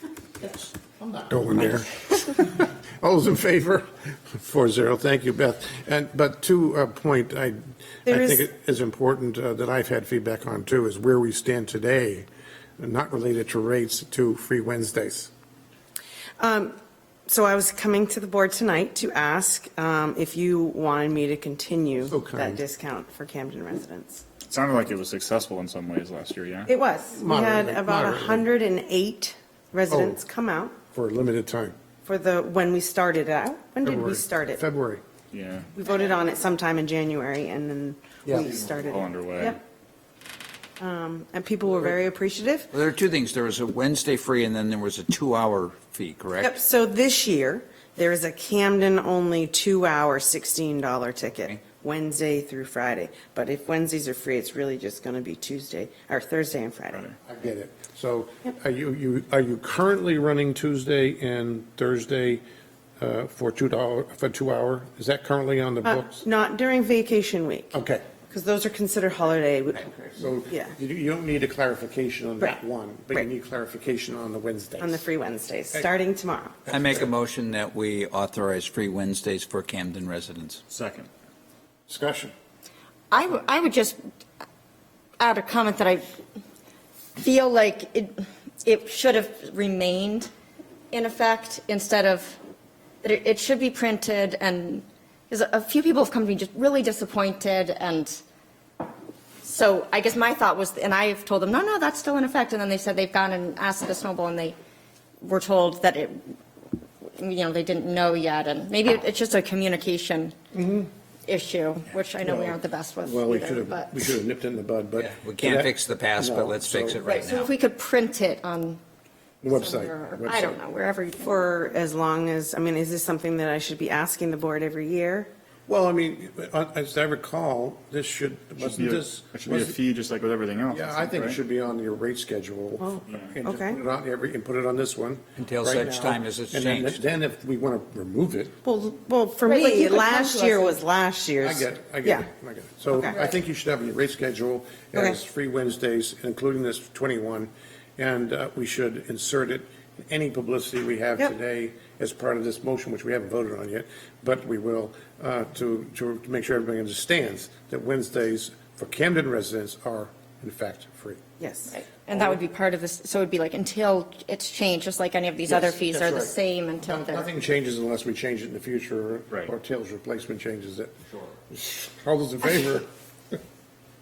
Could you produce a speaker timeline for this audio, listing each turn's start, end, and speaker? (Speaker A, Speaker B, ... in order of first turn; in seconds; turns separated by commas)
Speaker A: 1.0-12.3, Speaker B: 8.1-8.4, Speaker A: 12.8-15.3, Speaker B: 16.4-16.8, Speaker B: 17.3-24.2, Speaker A: 22.1-22.6, Speaker C: 24.4-26.7, Speaker B: 26.7-30.8, Speaker A: 27.2-28.5, Speaker A: 29.9-30.2, Speaker A: 30.9-31.8, Speaker B: 32.0-34.6, Speaker A: 33.8-35.0, Speaker C: 35.3-35.7, Speaker B: 35.8-39.6, Speaker A: 38.2-38.5, Speaker C: 38.4-39.6, Speaker B: 40.8-42.7, Speaker D: 42.7-46.5, Speaker B: 46.4-57.1, Speaker A: 57.2-62.4, Speaker A: 63.0-66.2, Speaker B: 65.8-67.8, Speaker A: 67.7-68.1, Speaker B: 68.3-69.9, Speaker A: 70.1-75.0, Speaker B: 74.8-76.7, Speaker A: 76.7-77.1, Speaker D: 76.7-80.6, Speaker C: 80.7-81.1, Speaker A: 81.9-82.3, Speaker E: 83.1-84.0, Speaker E: 85.2-86.1, Speaker E: 87.2-90.3, Speaker E: 90.9-92.4, Speaker E: 93.0-98.2, Speaker E: 99.4-104.5, Speaker E: 105.2-106.3, Speaker E: 107.0-110.4, Speaker A: 110.5-110.8, Speaker E: 111.3-114.1, Speaker A: 112.2-117.0, Speaker D: 115.0-117.5, Speaker E: 117.0-118.8, Speaker A: 119.4-120.6, Speaker E: 119.5-121.5, Speaker B: 121.2-125.3, Speaker A: 125.7-129.8, Speaker C: 128.6-131.4, Speaker A: 130.7-138.5, Speaker B: 132.8-133.8, Speaker C: 133.1-133.3, Speaker D: 135.4-137.0, Speaker B: 138.6-142.3, Speaker E: 139.4-140.8, Speaker A: 141.4-161.2, Speaker B: 142.9-143.2, Speaker E: 143.0-143.3, Speaker B: 161.4-161.7, Speaker E: 161.7-167.3, Speaker A: 165.5-170.9, Speaker A: 171.5-172.9